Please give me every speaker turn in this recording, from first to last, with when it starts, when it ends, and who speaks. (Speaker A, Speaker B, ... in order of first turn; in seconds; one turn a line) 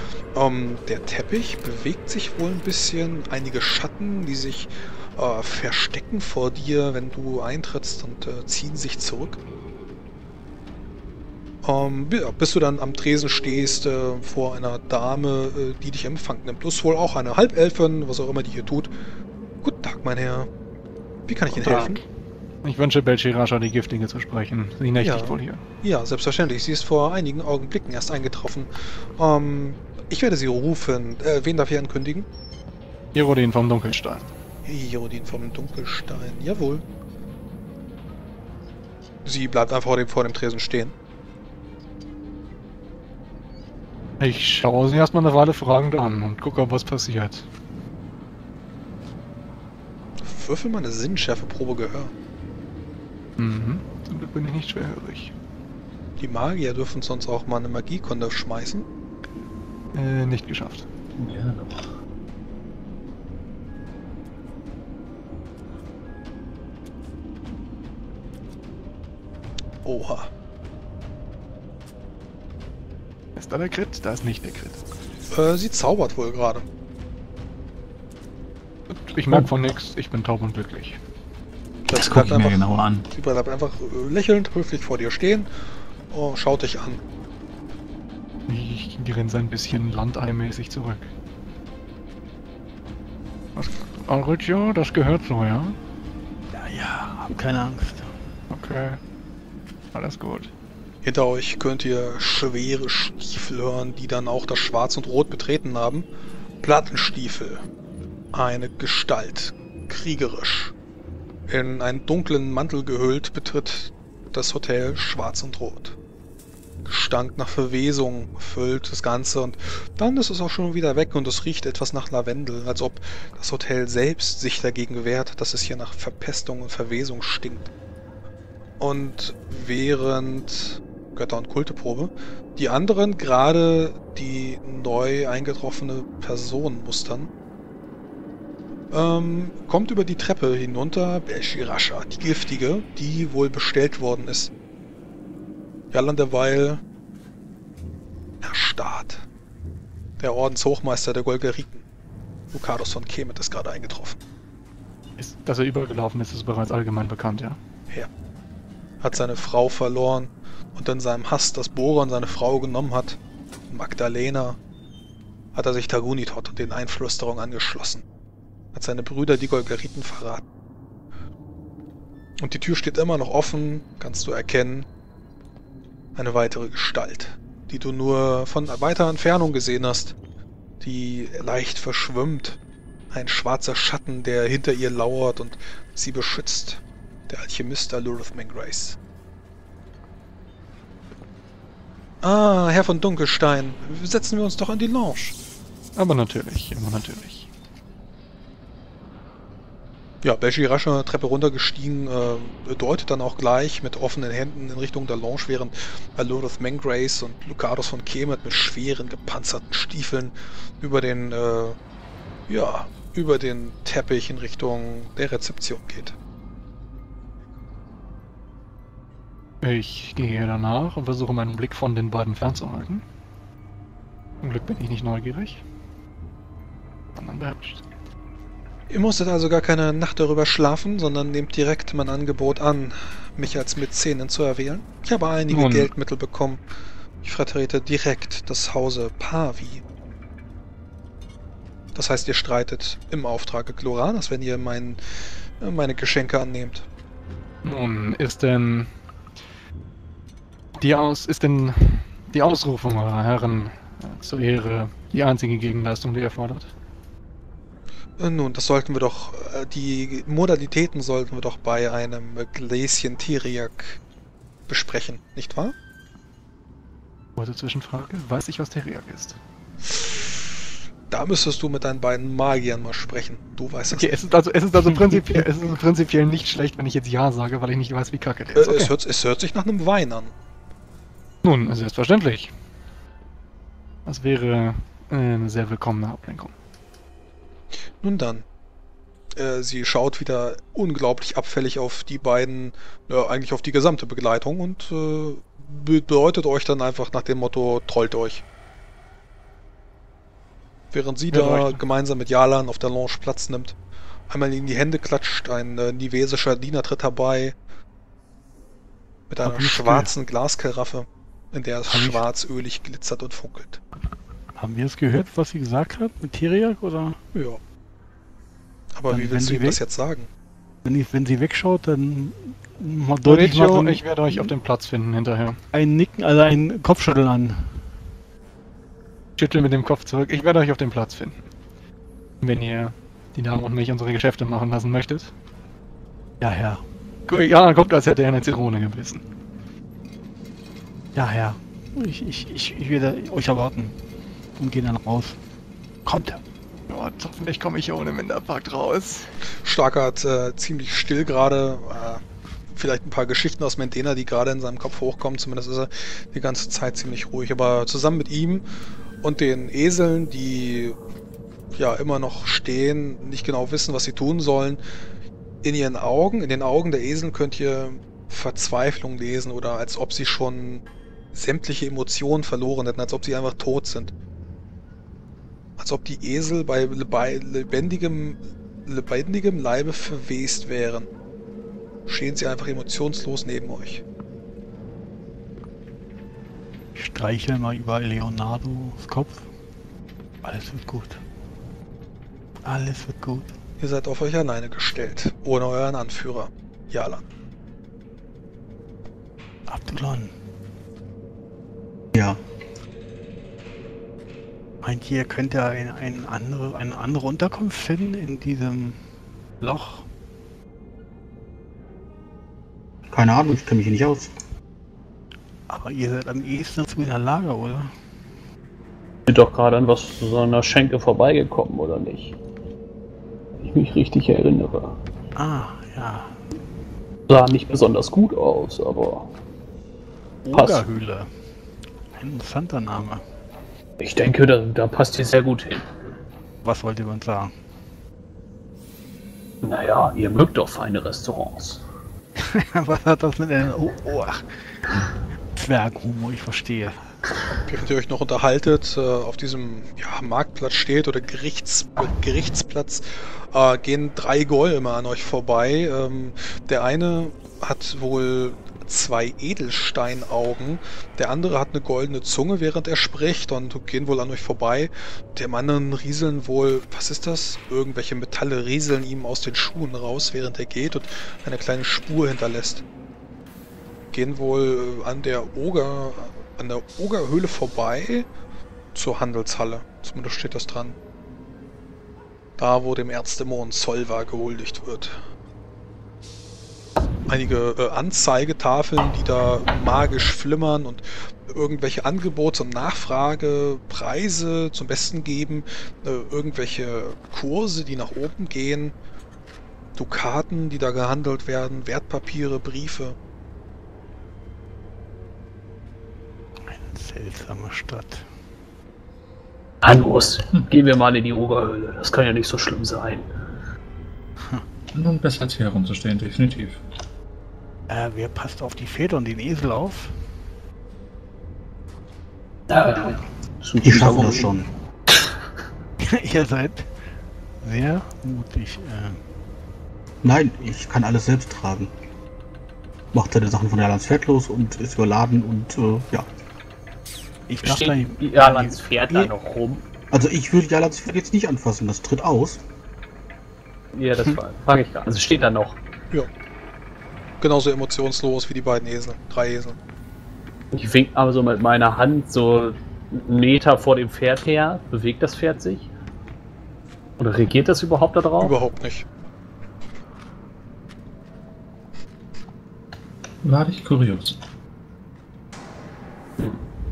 Speaker A: 0.3-9.4
Speaker A: 11.6-18.9
Speaker A: 19.6-20.5
Speaker A: 21.3-22.0
Speaker B: 21.5-22.0
Speaker B: 22.6-25.6
Speaker A: 24.9-32.2
Speaker B: 33.1-34.3
Speaker A: 34.6-36.8
Speaker A: 39.2-40.9
Speaker B: 44.2-47.5
Speaker A: 50.2-52.1
Speaker B: 53.4-55.3
Speaker A: 56.2-58.9
Speaker B: 59.9-60.9
Speaker C: 61.1-61.8
Speaker A: 69.8-70.3
Speaker B: 73.4-74.8
Speaker A: 75.3-76.6
Speaker B: 79.1-81.0
Speaker A: 81.9-85.5
Speaker C: 81.9-83.1
Speaker A: 86.1-87.0
Speaker B: 88.5-91.1
Speaker B: 93.6-95.8
Speaker D: 96.5-98.1
Speaker B: 98.5-99.0
Speaker B: 99.9-100.5
Speaker A: 101.0-106.1
Speaker A: 106.6-107.6
Speaker A: 108.3-110.7
Speaker A: 111.5-116.0
Speaker A: 116.8-127.7
Speaker A: 128.8-137.3
Speaker A: 138.9-144.5
Speaker A: 145.9-146.8
Speaker A: 148.4-149.2
Speaker A: 150.2-151.8
Speaker A: 152.5-154.2
Speaker B: 155.2-157.6
Speaker A: 159.0-163.2
Speaker A: 163.7-164.6
Speaker A: 165.5-168.0
Speaker A: 168.7-170.4
Speaker A: 172.4-174.9
Speaker A: 176.2-180.1
Speaker A: 180.8-182.6
Speaker A: 183.1-189.0
Speaker A: 192.2-195.3
Speaker B: 195.9-197.5
Speaker A: 200.2-211.8
Speaker A: 212.5-216.2
Speaker B: 219.6-223.0
Speaker B: 224.4-225.6
Speaker B: 227.2-227.8
Speaker A: 228.9-236.6
Speaker B: 235.5-235.9
Speaker A: 237.2-239.8
Speaker A: 241.9-245.0
Speaker A: 245.6-246.9
Speaker B: 247.6-248.9
Speaker B: 250.8-256.7
Speaker A: 258.2-264.0
Speaker A: 264.7-265.7
Speaker B: 267.4-269.4
Speaker A: 271.1-274.1
Speaker B: 273.9-278.9
Speaker A: 278.6-280.3
Speaker B: 281.4-282.5
Speaker B: 284.1-286.5
Speaker A: 288.0-288.4
Speaker A: 289.4-298.4
Speaker A: 300.9-303.7
Speaker B: 301.3-301.8
Speaker A: 304.3-307.6
Speaker A: 309.3-313.8
Speaker D: 309.4-310.1
Speaker D: 311.9-312.2
Speaker D: 314.6-317.2
Speaker A: 317.3-317.6
Speaker A: 318.9-320.3
Speaker D: 319.1-319.8
Speaker D: 320.9-324.5
Speaker B: 323.2-325.6
Speaker D: 325.7-327.8
Speaker B: 329.4-331.4
Speaker B: 332.4-335.3
Speaker D: 336.4-336.8
Speaker B: 337.3-339.2
Speaker D: 341.1-343.9
Speaker D: 344.6-345.4
Speaker D: 346.1-346.4
Speaker B: 346.9-349.3
Speaker A: 349.6-358.6
Speaker A: 359.2-361.0
Speaker A: 361.7-364.8
Speaker A: 365.6-374.1
Speaker A: 375.8-381.1
Speaker A: 382.1-384.0
Speaker D: 386.9-389.4
Speaker D: 390.4-391.2
Speaker D: 392.6-393.5
Speaker A: 393.8-397.2
Speaker D: 399.7-400.3
Speaker E: 402.1-402.4
Speaker D: 404.8-409.0
Speaker D: 409.6-410.1
Speaker E: 413.1-414.3
Speaker D: 415.7-417.9
Speaker F: 419.3-422.4
Speaker F: 423.6-425.0
Speaker D: 425.4-426.4
Speaker F: 427.3-429.3
Speaker D: 430.4-431.3
Speaker F: 430.5-430.8
Speaker D: 432.1-433.2
Speaker F: 434.0-435.9
Speaker D: 436.6-437.5
Speaker F: 439.6-441.8
Speaker D: 442.4-444.4
Speaker D: 445.5-447.0
Speaker A: 447.6-472.8
Speaker A: 474.1-478.2
Speaker A: 478.9-480.9
Speaker A: 482.6-485.2
Speaker A: 487.3-498.9
Speaker A: 499.9-503.1
Speaker D: 506.6-508.2
Speaker F: 509.8-513.3
Speaker D: 514.4-514.6
Speaker C: 514.9-516.8
Speaker D: 517.9-520.2
Speaker F: 522.7-524.5
Speaker E: 523.8-524.7
Speaker D: 526.0-526.9
Speaker D: 527.6-529.2
Speaker E: 530.2-531.9
Speaker E: 533.1-536.3
Speaker D: 537.5-539.3
Speaker F: 537.6-539.8
Speaker E: 540.1-542.6
Speaker F: 543.9-545.8
Speaker A: 547.4-549.8
Speaker F: 550.7-555.9
Speaker F: 557.2-558.5
Speaker A: 558.4-559.1
Speaker C: 563.4-564.4